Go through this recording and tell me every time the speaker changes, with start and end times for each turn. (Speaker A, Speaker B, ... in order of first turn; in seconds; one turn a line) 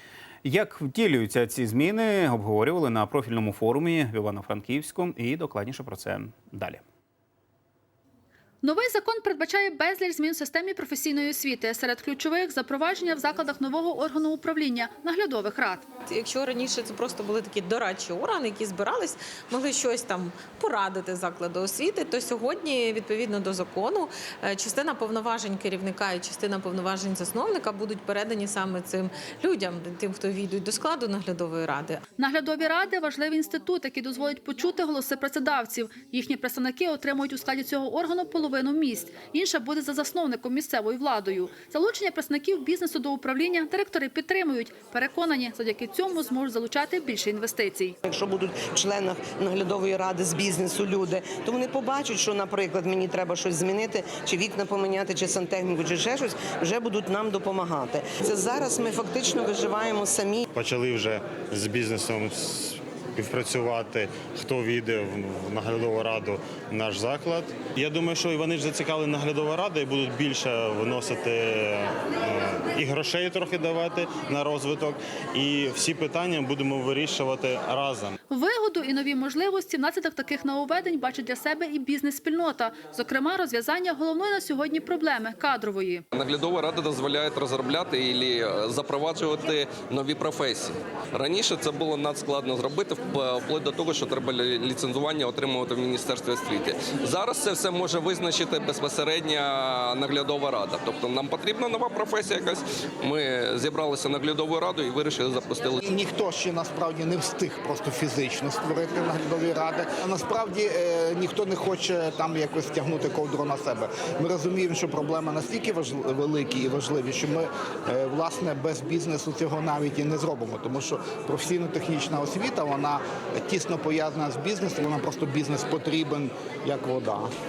Speaker A: 0.4-6.8
Speaker B: 8.6-15.8
Speaker C: 16.1-32.0
Speaker B: 32.2-48.0
Speaker D: 48.0-60.4
Speaker E: 60.5-78.2
Speaker B: 78.3-86.0
Speaker F: 86.1-105.8
Speaker G: 105.8-127.3